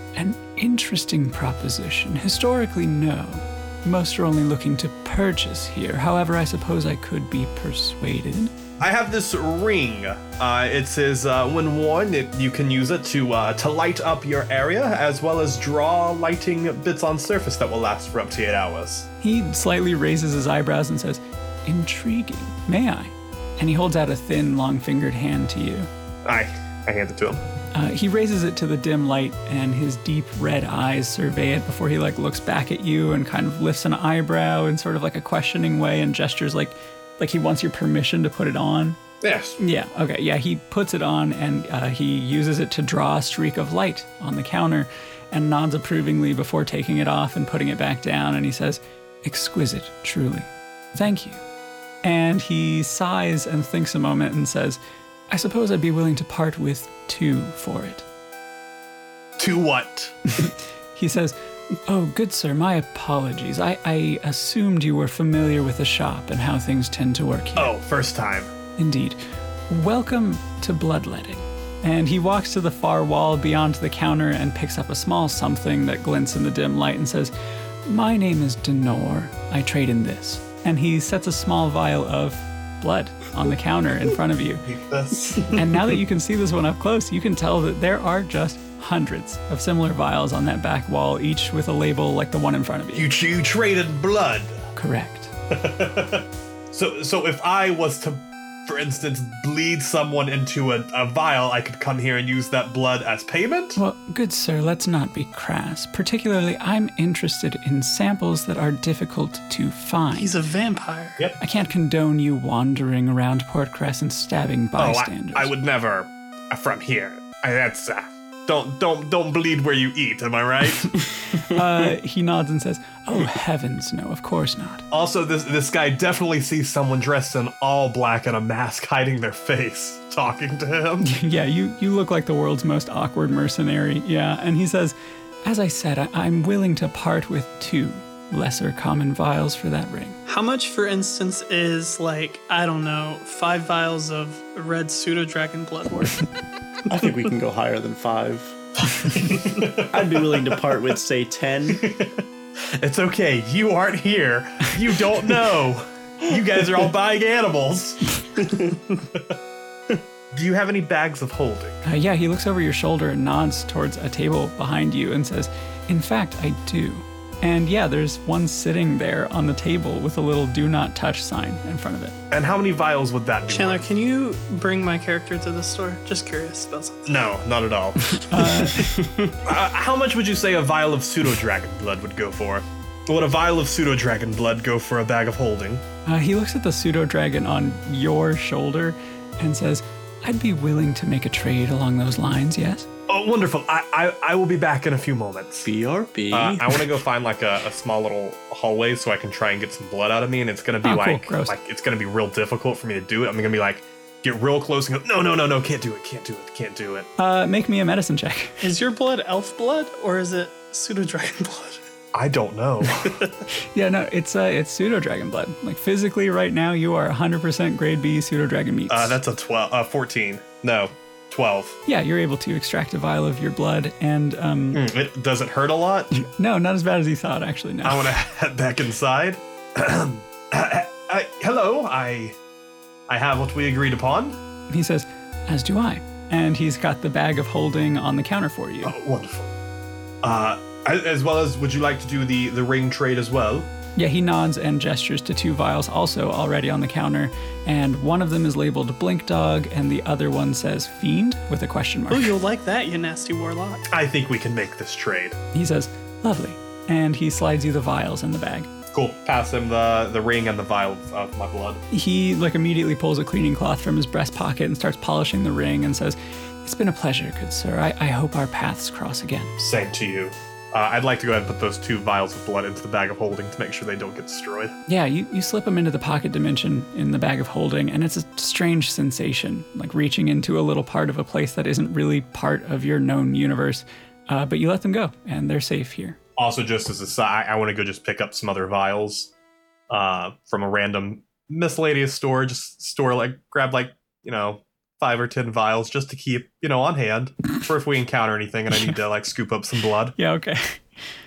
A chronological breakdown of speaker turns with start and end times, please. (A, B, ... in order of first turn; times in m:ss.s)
0:00.2-0:08.5 A
0:08.8-0:19.1 B
0:19.2-0:25.9 A
0:26.2-0:27.4 B
0:27.7-0:39.0 A
0:39.2-0:39.6 B
0:39.6-0:51.4 A
0:52.0-0:54.8 A
0:55.3-0:58.0 A
0:59.4-1:00.1 B
1:00.3-1:07.7 A
1:07.6-1:08.5 B
1:08.8-1:17.3 A
1:17.8-1:24.6 A
1:24.6-1:25.6 B
1:25.5-1:33.1 A
1:32.9-1:34.6 B
1:34.8-1:35.3 A
1:35.5-1:43.8 B
1:43.8-1:50.4 A
1:50.1-1:51.2 C
1:51.4-1:55.5 A
1:54.8-2:00.9 B
2:01.4-2:04.8 A
2:04.9-2:11.1 B
2:11.0-2:20.2 A
2:20.3-2:26.2 C
2:26.9-2:28.6 D
2:29.2-2:30.6 B
2:29.2-2:31.9 D
2:31.7-2:32.2 B
2:32.8-2:38.0 B
2:38.4-2:38.7 D
2:40.3-2:41.8 B
2:41.8-2:52.2 A
2:52.3-2:53.8 B
2:53.5-2:57.0 C
2:57.0-2:58.2 B
2:58.1-2:59.0 A
2:58.8-2:59.3 D
2:59.4-3:05.8 B
3:06.0-3:12.9 A
3:13.1-3:15.7 B
3:15.6-3:16.8 D
3:16.3-3:27.1 B
3:20.8-3:21.5 A
3:27.2-3:28.6 A
3:28.6-3:31.8 C
3:32.1-3:33.2 B
3:33.7-3:39.2 A
3:38.9-3:41.8 B
3:41.8-3:44.8 A
3:44.7-3:46.1 B
3:46.2-3:48.2 A
3:47.8-3:52.4 B
3:53.1-3:54.4 B
3:54.7-3:58.9 A
3:58.8-3:59.5 B
4:00.2-4:03.7 B
4:04.0-4:12.3 A
4:12.1-4:13.9 C
4:13.9-4:15.4 B
4:15.5-4:18.7 A
4:18.9-4:21.8 B
4:21.9-4:29.5 A
4:29.6-4:34.8 B
4:34.9-4:46.2 A
4:46.4-4:49.3 B
4:49.9-5:00.1 B
5:00.2-5:00.8 A